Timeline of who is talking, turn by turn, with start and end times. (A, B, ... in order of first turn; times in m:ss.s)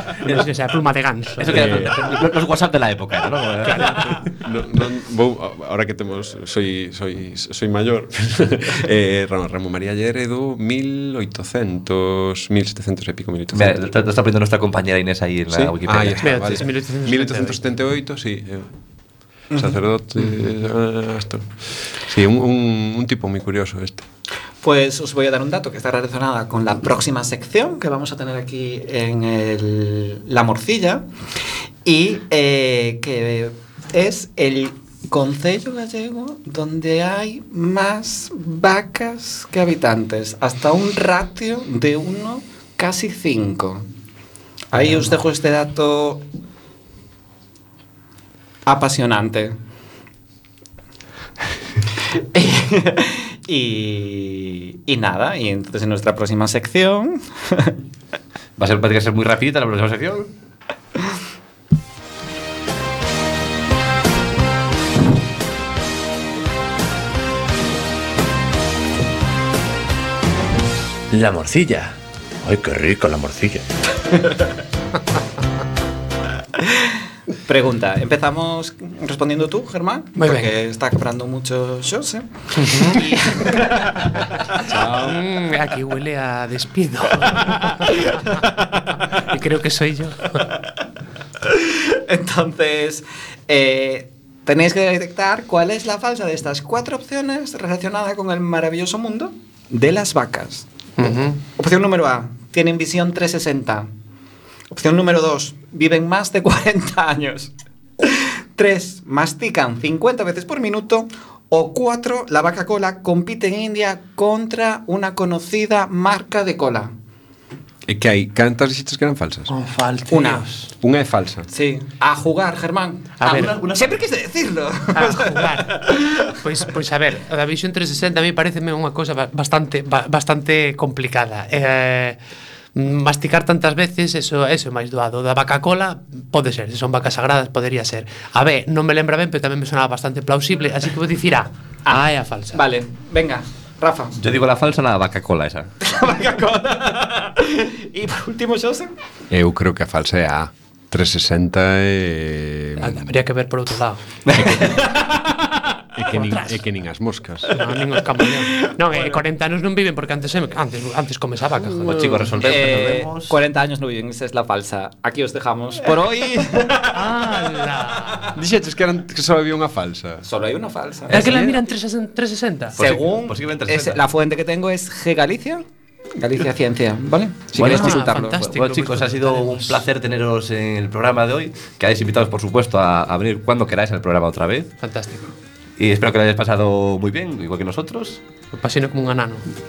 0:00.2-0:01.7 A
0:01.4-0:04.2 B
0:01.5-0:02.1 C
0:03.6-0:04.1 A
0:04.2-0:13.8 C
0:13.5-0:16.5 B
0:15.5-0:18.7 C
0:16.2-0:17.6 A
0:19.5-0:24.0 C
0:24.6-0:31.0 D
0:31.8-0:43.9 D
0:44.7-0:46.2 D
0:48.6-0:49.6 D
0:52.1-0:57.8 D
0:58.6-1:00.3 B
1:11.1-1:13.6 E
1:17.4-1:24.3 D
1:20.2-1:20.5 A
1:22.5-1:23.6 A
1:24.6-1:25.2 C
1:24.8-1:28.4 A
1:29.1-1:30.4 A
1:31.4-1:43.9 D
1:41.0-1:41.4 A
1:44.7-1:56.9 D
1:57.9-1:59.5 C
1:59.5-2:00.7 A
2:00.1-2:00.4 D
2:00.8-2:01.5 C
2:01.5-2:06.4 D
2:03.2-2:03.6 A
2:03.2-2:04.0 B
2:04.9-2:12.2 A
2:12.7-2:22.6 A
2:22.5-2:24.2 D
2:24.2-2:25.7 B
2:25.8-2:28.9 D
2:29.3-2:33.1 C
2:32.8-2:34.0 A
2:34.3-2:34.6 B
2:34.3-2:34.8 C
2:35.9-2:37.5 C
2:36.1-2:36.6 A
2:37.5-2:42.3 A
2:38.7-2:39.2 D
2:41.8-2:43.3 B
2:42.4-2:47.1 D
2:46.9-2:48.3 A
2:47.9-2:48.2 D
2:48.3-2:50.2 C
2:50.2-2:51.3 D
2:51.1-2:51.5 C
2:51.1-2:52.8 A
2:52.7-2:54.0 B
2:52.8-2:55.6 D
2:56.2-2:58.4 D
2:57.5-3:04.7 B
2:57.6-2:59.8 A
3:04.8-3:05.3 A
3:05.8-3:08.2 B
3:08.5-3:09.4 A